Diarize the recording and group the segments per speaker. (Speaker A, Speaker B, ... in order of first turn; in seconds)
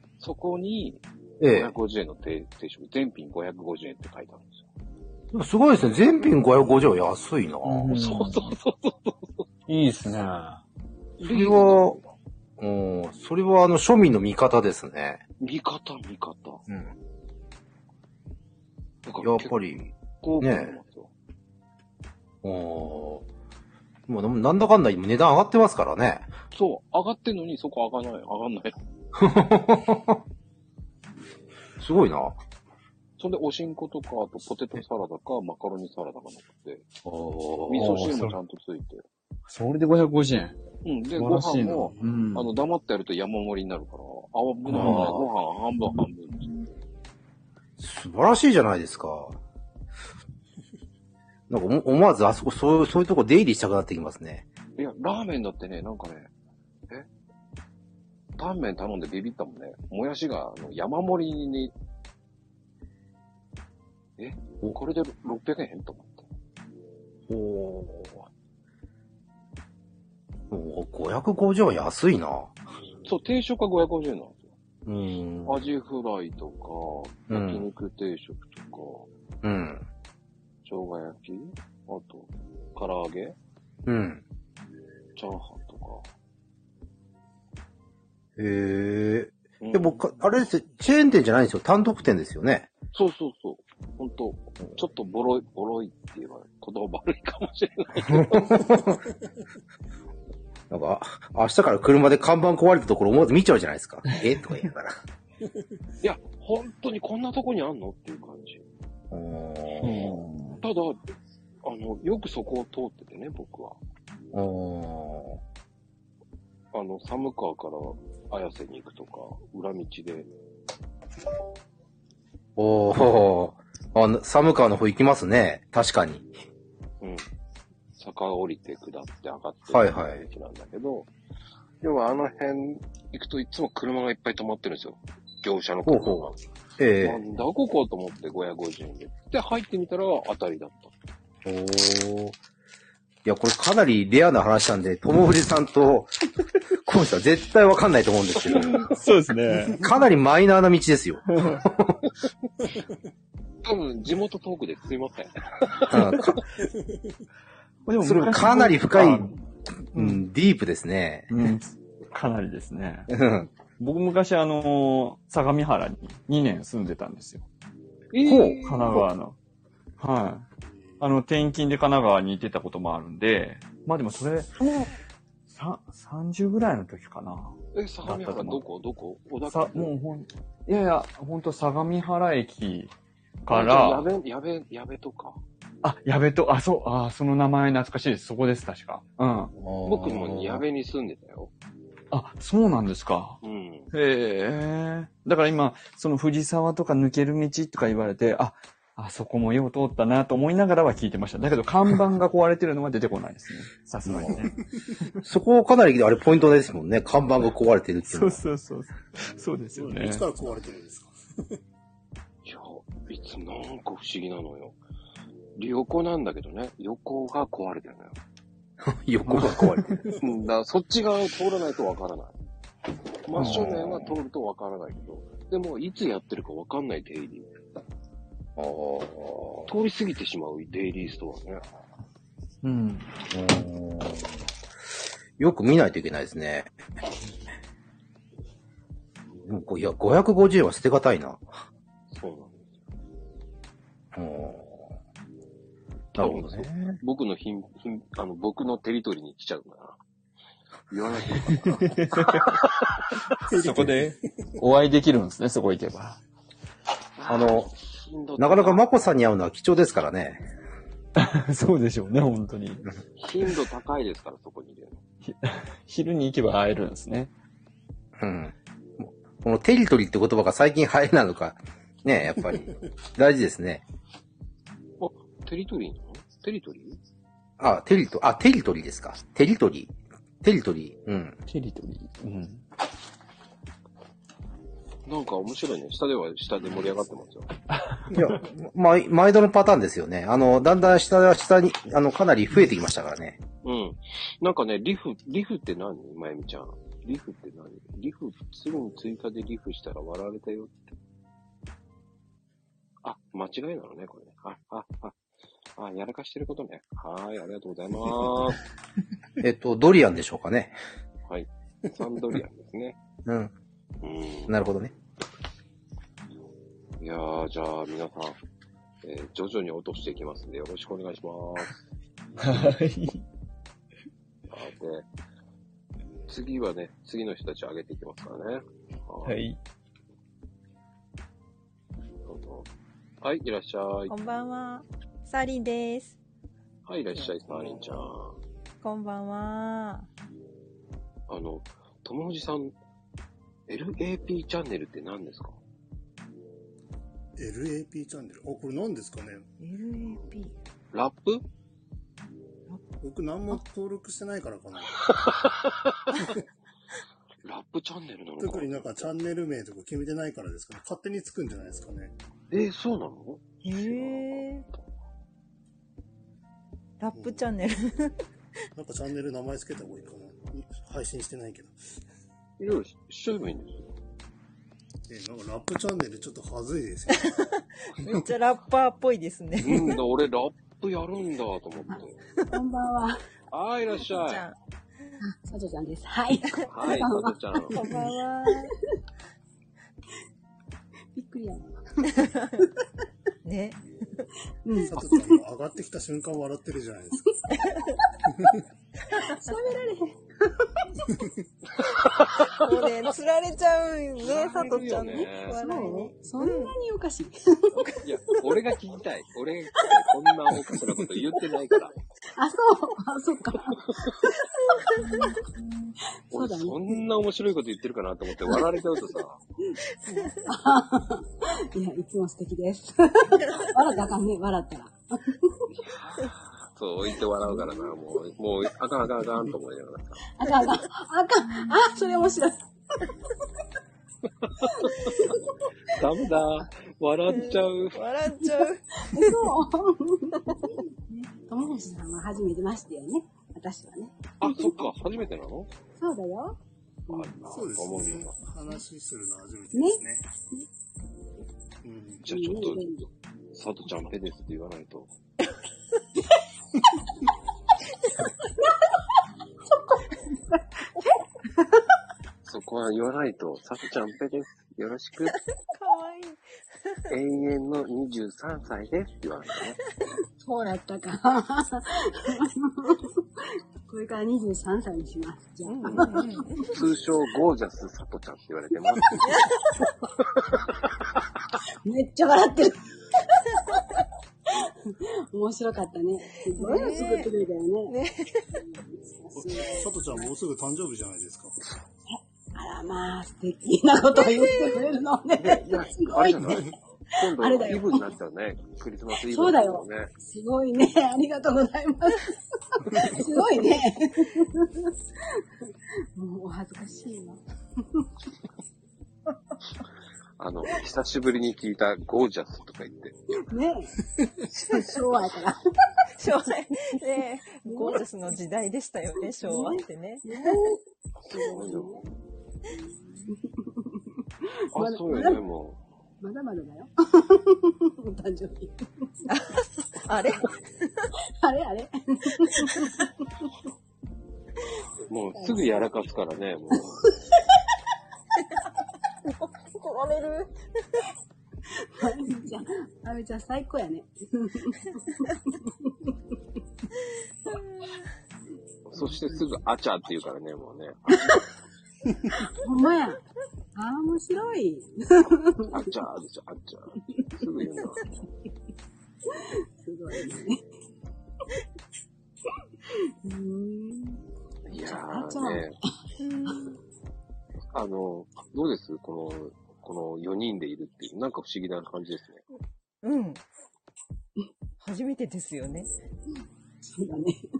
Speaker A: 0.2-4.7, 7.9-9.4, 11.2-12.0, 15.4-16.6, 19.1-21.1, 26.5-28.8, 33.2-36.9, 37.7-39.0, 40.8-46.5, 54.8-56.3, 58.4-61.7, 64.2-66.3, 73.0-74.5, 75.5-79.1, 80.7-83.4, 85.2-86.0, 89.6-90.0, 92.9-98.6, 106.0-108.6, 110.6-111.0, 111.6-113.8, 116.7-120.3, 128.0-131.1, 131.8-136.4, 137.0-140.9, 153.7-156.2, 168.1-169.0, 177.7-179.9, 183.5-185.4, 189.8-191.5, 193.4-193.9, 212.4-214.8, 215.6-218.2, 220.2-222.3, 223.3-227.5, 229.7-231.6, 242.1-242.8, 246.2-250.0, 250.9-252.5, 257.2-258.8, 263.2-265.0, 275.0-277.0, 285.1-287.5, 293.6-300.9, 303.0-305.2, 305.8-308.6, 311.3-313.0, 314.0-314.6, 317.0-318.4, 319.0-321.8, 324.5-325.1, 326.3-329.4, 332.3-332.7, 333.2-334.1, 336.9-338.4, 341.3-342.8, 343.7-345.6, 350.9-351.4, 357.4-359.1, 362.5-364.8, 372.6-373.9, 379.6-382.2, 383.5-384.5, 386.7-387.8, 402.0-402.7, 404.2-405.6, 407.8-412.0, 416.3-419.4, 425.8-430.3, 434.4-434.9, 435.9-438.0, 444.4-445.7, 447.1-448.4, 452.2-452.9, 453.5-455.1, 462.4-465.4, 467.1-469.8, 475.9-476.2, 476.7-479.3, 495.4-500.1, 510.4-513.2, 521.2-522.0, 524.7-525.8, 535.1-537.0, 548.9-551.4, 555.7-558.2, 564.7-565.8, 567.7-572.4
Speaker B: 1.4-1.8, 5.3-8.0, 11.2-12.0, 12.6-15.2, 16.7-16.9, 19.2-19.8, 20.4-20.8, 22.4-23.3, 24.1-26.3, 29.2-30.2, 31.8-32.4, 37.0-38.2, 44.7-45.3, 47.8-49.4, 51.5-54.5, 67.3-68.2, 70.5-72.5, 74.9-75.7, 77.3-77.7, 79.4-79.9, 83.9-84.2, 88.4-92.7, 98.0-99.0, 100.7-105.0, 109.1-110.1, 114.3-115.4, 122.6-126.3, 129.7-130.2, 135.8-137.2, 141.4-142.4, 143.2-146.1, 146.7-148.9, 149.7-152.0, 155.9-156.4, 158.0-161.3, 163.1-163.5, 168.2-169.1, 189.6-190.6, 204.1-204.4, 205.2-208.4, 218.8-220.0, 223.4-224.1, 228.6-229.7, 233.3-234.3, 235.4-236.7, 239.4-241.4, 244.1-244.9, 246.2-246.7, 257.3-257.7, 258.4-260.4, 268.2-273.8, 277.6-281.4, 288.1-293.4, 309.4-310.8, 313.2-313.5, 314.5-314.9
Speaker C: 7.6-8.5, 9.7-10.6, 37.8-38.3, 39.5-40.6, 41.2-42.5, 44.7-45.1, 109.8-110.6, 148.9-149.8, 151.3-151.6, 157.9-159.4, 159.9-160.2, 161.3-163.1, 163.8-167.5, 168.6-169.4, 170.0-170.5, 171.0-174.9, 175.5-178.6, 179.5-182.9, 183.4-184.1, 185.8-189.5, 192.1-193.4, 193.9-204.6, 208.1-210.3, 219.2-220.0, 223.4-223.7, 232.6-233.1, 251.5-252.4, 253.4-256.2, 261.2-262.9, 265.2-267.3, 281.5-282.6, 287.8-288.1, 322.4-323.2, 329.3-329.6
Speaker D: 156.7-157.1, 170.8-171.1, 209.7-211.6, 253.5-254.1, 347.4-349.5, 353.0-355.1, 358.4-362.1, 367.1-367.5, 368.8-371.8, 375.1-377.4, 394.9-397.3, 398.3-398.6, 447.5-450.3, 451.8-452.2, 489.4-491.6
Speaker E: 334.1-336.2, 338.8-340.1, 349.6-350.5, 363.6-364.7, 367.0-368.1, 377.2-380.0, 384.0-384.6, 387.7-388.7, 392.2-392.6, 393.4-394.3, 397.6-397.9, 399.2-399.8, 402.6-406.8, 414.8-415.5, 420.1-420.5, 423.6-424.0, 430.4-430.8, 437.3-439.5, 465.7-466.4, 475.6-476.7, 479.2-479.7, 486.5-487.3, 487.9-488.6, 494.2-494.8, 514.7-515.0, 516.2-520.7, 529.3-530.5, 539.4-540.5, 566.2-566.8, 573.0-573.4, 574.8-575.9
Speaker F: 382.5-383.2, 385.3-388.1, 391.1-392.1, 394.6-395.4, 399.2-401.0, 405.5-408.0, 412.4-414.3, 415.0-415.4, 416.3-417.0, 419.6-425.7, 427.4-427.9, 430.4-432.7, 434.6-435.9, 439.1-444.8, 446.0-447.7, 449.7-450.7, 452.3-453.1, 459.7-460.0, 460.5-461.8, 470.4-473.2, 473.9-476.6, 481.9-482.8, 484.5-487.9, 488.6-490.3, 492.1-498.1, 499.1-508.1, 513.5-514.0, 514.6-515.6, 517.7-518.0, 519.4-520.8, 521.3-522.1, 522.8-525.4, 526.2-529.3, 531.4-533.5, 535.4-536.0, 536.7-537.4, 541.7-546.1, 549.0-549.5, 551.1-551.5, 552.3-553.2, 553.8-555.9, 557.1-557.5, 559.3-560.6, 562.9-565.7, 566.5-566.8, 576.8-577.4